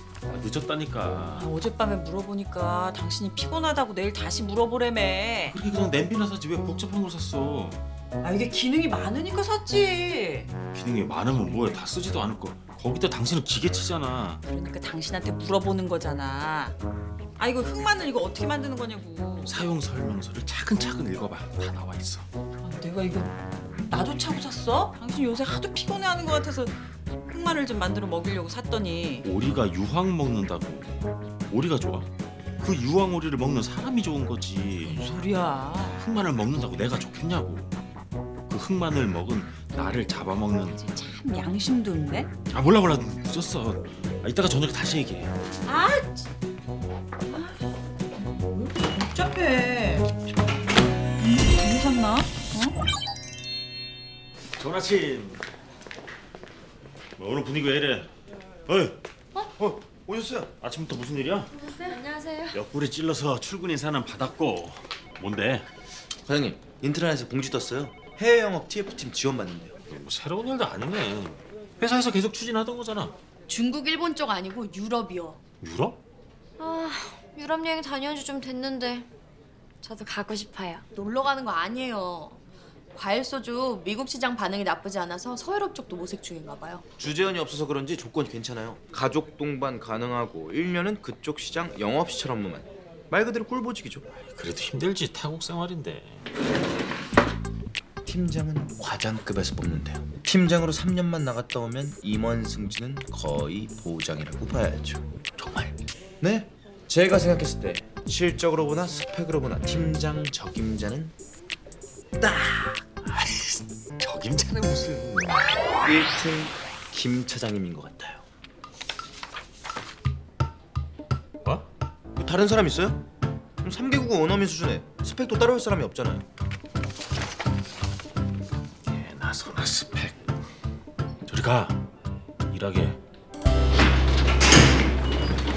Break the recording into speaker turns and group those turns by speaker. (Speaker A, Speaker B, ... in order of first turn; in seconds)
Speaker A: 0.3-1.5, 5.4-7.8, 10.7-14.4, 19.4-22.3, 29.2-35.1, 35.9-37.7, 38.5-40.8, 42.5-45.3, 54.6-55.4, 57.2-58.1, 58.7-59.0, 60.6-61.5, 62.5-65.7, 69.9-73.1, 75.6-76.0, 94.2-96.2, 105.4-105.7, 113.0-115.4, 128.8-130.3, 131.3-131.8, 132.5-133.0
Speaker B: 1.4-5.6, 8.2-10.5, 11.4-11.7, 14.4-16.7, 17.4-19.5, 22.6-29.2, 34.8-36.0, 40.8-42.3, 45.7-46.1, 47.3-50.1, 51.2-52.7
Speaker C: 59.6-60.5, 66.2-69.8, 87.0-94.1, 98.0-105.1, 106.2-111.1, 112.2-112.8, 115.8-118.2, 122.2-123.0, 123.6-126.2
Speaker D: 61.7-62.6, 73.5-75.4, 76.6-79.1, 79.8-82.4, 82.9-86.8